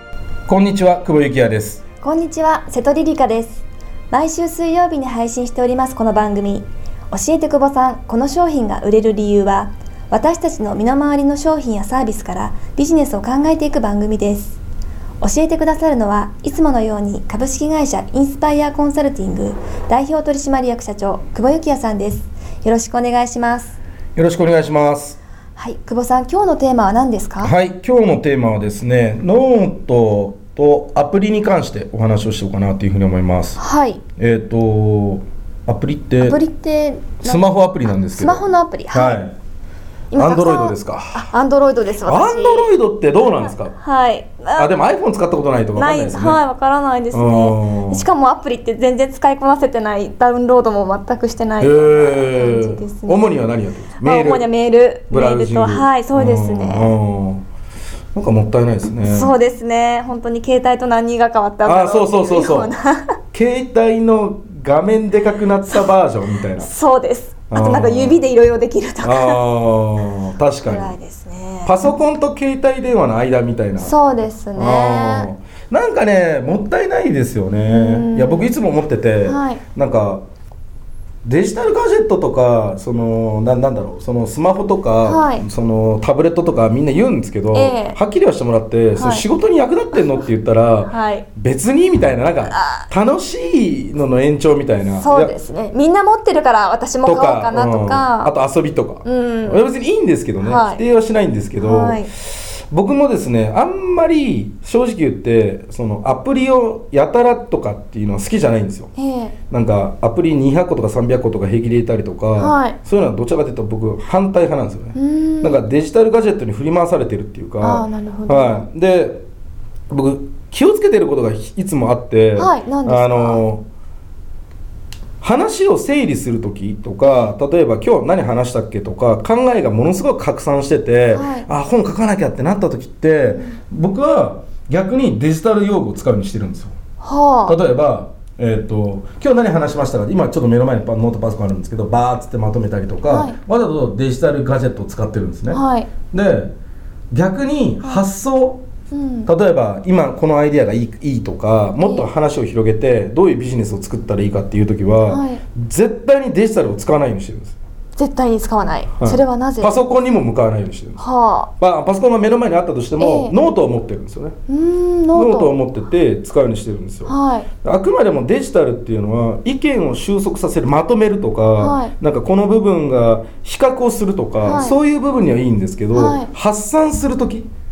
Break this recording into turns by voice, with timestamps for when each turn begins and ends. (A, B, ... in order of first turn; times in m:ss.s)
0:00.5-0:01.8 A
0:02.0-0:14.6 B
0:15.2-0:23.7 B
0:24.2-0:25.2 A
0:25.6-0:27.5 B
0:27.4-0:33.6 A
0:33.6-0:34.0 B
0:34.2-0:36.4 A
0:36.2-0:37.4 B
0:37.2-0:39.4 A
0:38.2-0:39.1 B
0:40.1-0:42.7 B
0:40.2-0:41.3 A
0:42.0-0:43.7 A
0:43.8-0:44.7 B
0:44.5-0:46.4 A
0:45.8-0:53.2 B
0:47.1-0:48.0 A
0:51.6-0:54.5 A
0:54.0-0:56.9 B
0:55.1-0:57.4 A
0:58.1-0:59.4 A
0:59.1-1:03.2 B
1:01.6-1:02.7 A
1:03.3-1:06.7 A
1:06.6-1:09.4 B
1:07.5-1:08.2 A
1:09.0-1:11.0 A
1:10.6-1:11.7 B
1:11.6-1:13.9 A
1:13.8-1:15.3 B
1:14.6-1:20.2 A
1:17.7-1:18.4 B
1:19.3-1:19.6 B
1:21.2-1:35.3 A
1:25.0-1:25.4 B
1:27.5-1:28.0 B
1:29.0-1:29.2 B
1:30.9-1:31.2 B
1:35.0-1:38.3 B
1:37.0-1:48.9 A
1:39.1-1:39.5 B
1:40.5-1:40.8 B
1:41.6-1:42.1 B
1:49.0-1:49.3 B
1:49.5-1:59.2 A
1:52.4-1:52.8 B
1:55.0-1:55.5 B
1:57.7-1:58.6 B
1:59.9-2:03.6 A
2:02.4-2:03.4 B
2:05.2-2:16.7 A
2:07.0-2:07.3 B
2:11.1-2:11.5 B
2:17.0-2:17.5 B
2:17.4-2:26.5 A
2:23.1-2:23.4 B
2:25.5-2:25.9 B
2:27.1-2:28.6 A
2:28.9-2:29.3 B
2:29.2-2:37.6 A
2:35.1-2:35.4 B
2:38.0-2:39.7 B
2:39.0-2:41.0 A
2:41.0-2:41.5 B
2:41.6-2:44.4 A
2:43.0-2:43.3 B
2:44.5-2:45.5 B
2:45.1-2:57.5 A
2:47.1-2:47.4 B
2:51.6-2:51.9 B
2:56.0-2:56.3 B